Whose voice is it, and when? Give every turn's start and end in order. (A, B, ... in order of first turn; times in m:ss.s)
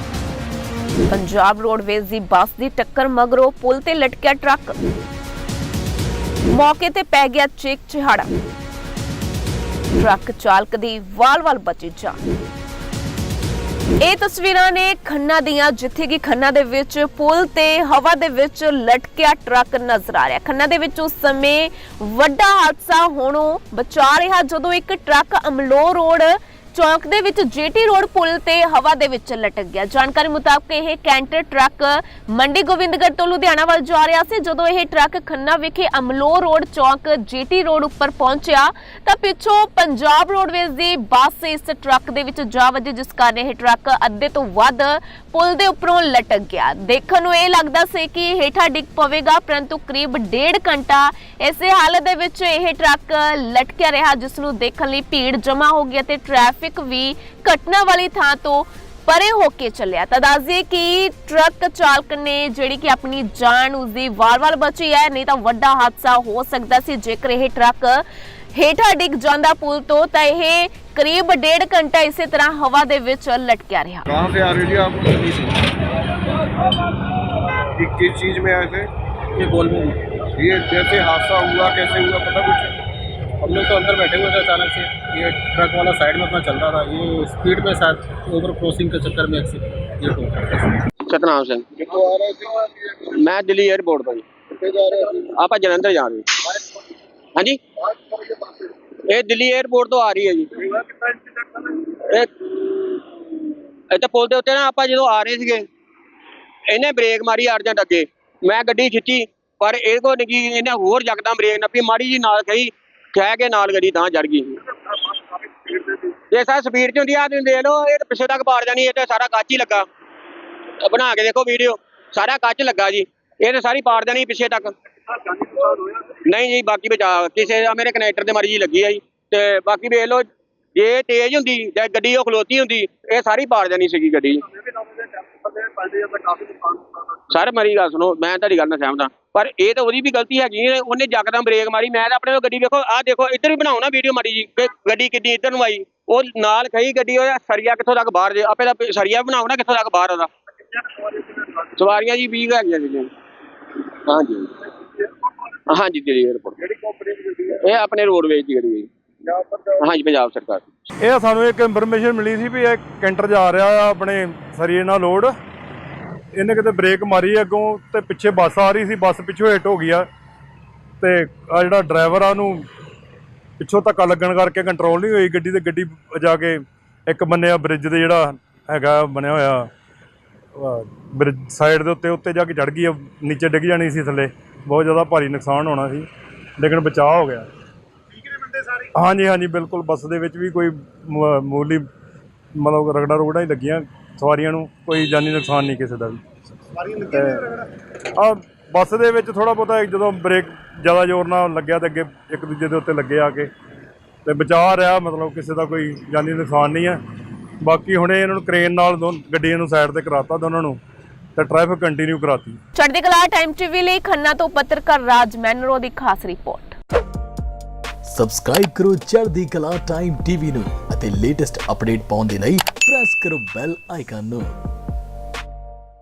0:01.1-0:04.8 A
0:06.5-0:08.3 A
0:10.0-0:12.2 A
0:14.0-1:08.0 A
1:08.6-1:14.0 A
1:14.1-1:15.8 B
1:17.8-1:18.9 B
1:19.4-1:20.0 C
1:20.4-1:22.8 B
1:23.4-1:30.8 C
1:31.1-1:31.7 D
1:31.8-1:33.0 B
1:33.1-1:34.3 D
1:34.6-1:35.2 B
1:35.2-1:36.3 D
1:39.1-1:41.0 D
1:43.9-1:45.7 D
1:46.7-1:54.6 D
1:55.7-1:59.8 D
2:00.8-2:04.7 D
2:05.3-2:14.4 D
2:17.3-2:30.3 D
2:31.8-2:33.1 D
2:34.1-2:34.5 D
2:35.7-2:36.6 D
2:37.5-2:38.9 D
2:39.8-2:40.6 D
2:41.0-2:45.3 E
2:46.3-2:50.1 E
2:51.0-2:52.7 E
2:53.6-2:59.7 E
3:00.6-3:06.1 E
3:06.6-3:07.5 E
3:09.0-3:11.9 E
3:12.6-3:16.2 E
3:16.8-3:23.5 E
3:24.2-3:27.0 E
3:27.6-3:30.8 E
3:31.4-3:32.6 E
3:32.8-3:36.8 A
3:38.0-3:44.6 F